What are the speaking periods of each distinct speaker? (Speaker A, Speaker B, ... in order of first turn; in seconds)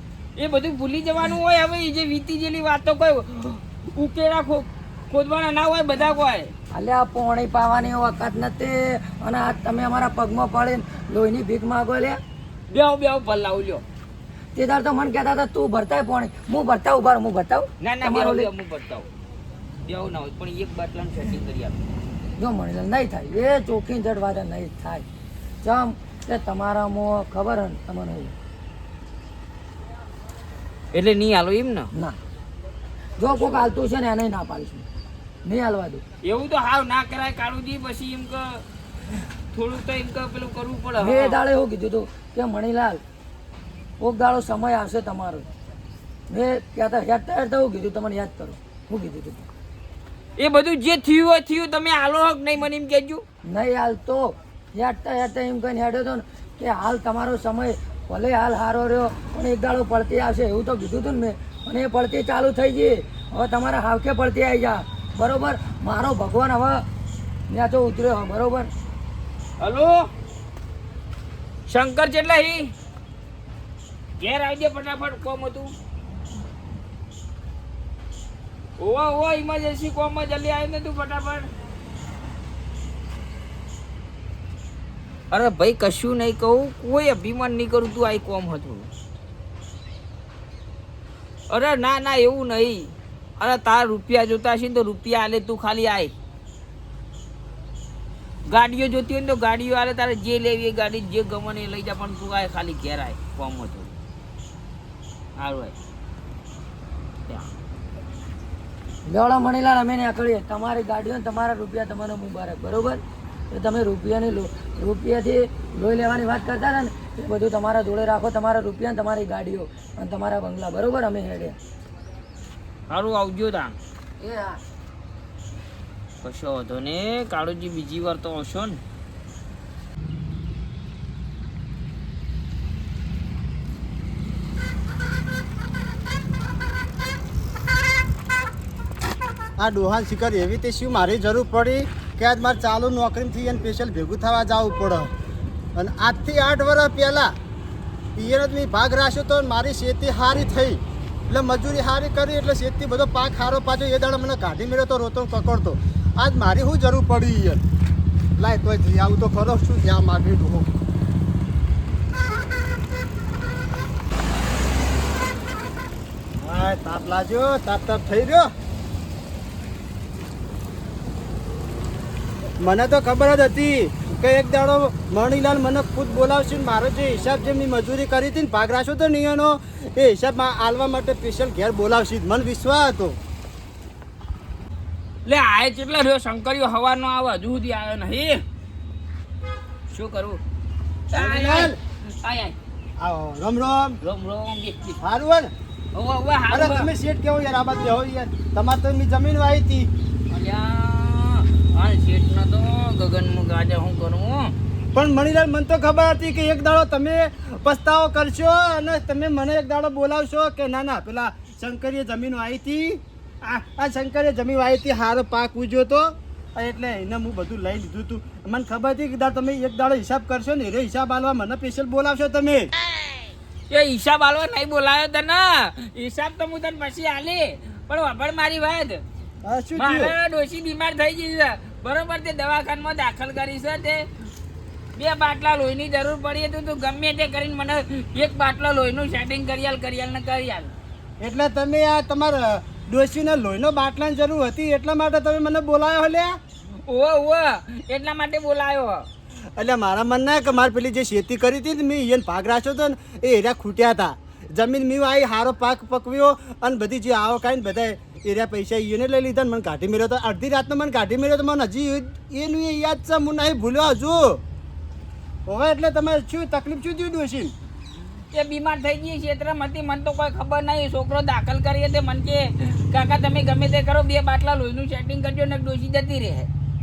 Speaker A: 0.4-6.5, 12.7-13.8, 17.8-19.1, 19.8-21.8, 30.9-31.9, 33.4-33.6, 36.2-38.6, 39.5-41.4, 50.4-53.2, 69.6-70.1, 71.7-72.7, 74.2-75.7, 78.8-81.5, 85.3-88.9, 91.5-96.1, 98.5-103.9, 105.4-105.7, 122.9-123.8, 126.2-128.8, 185.2-188.4, 189.9-190.4, 191.1-192.6, 194.0-195.0, 195.9-196.9, 200.3-204.5, 223.7-229.0, 229.8-234.0, 234.9-240.7, 246.9-249.1, 268.3-276.5
Speaker B: 6.7-12.2, 14.5-18.5, 22.4-25.1, 25.6-28.3, 33.2-34.9, 35.5-36.0, 41.0-43.0, 44.0-45.5, 46.3-49.5, 53.5-66.8, 67.5-68.7, 109.1-121.5, 124.2-124.6
Speaker C: 139.6-145.1, 145.8-147.3, 148.2-157.6, 158.4-160.7, 166.4-168.5, 172.6-183.2, 191.1-191.8, 193.0-194.0, 195.0-195.5, 196.5-199.9, 204.9-222.7, 229.4-230.1, 241.2-246.3, 249.6-264.4, 265.5-267.5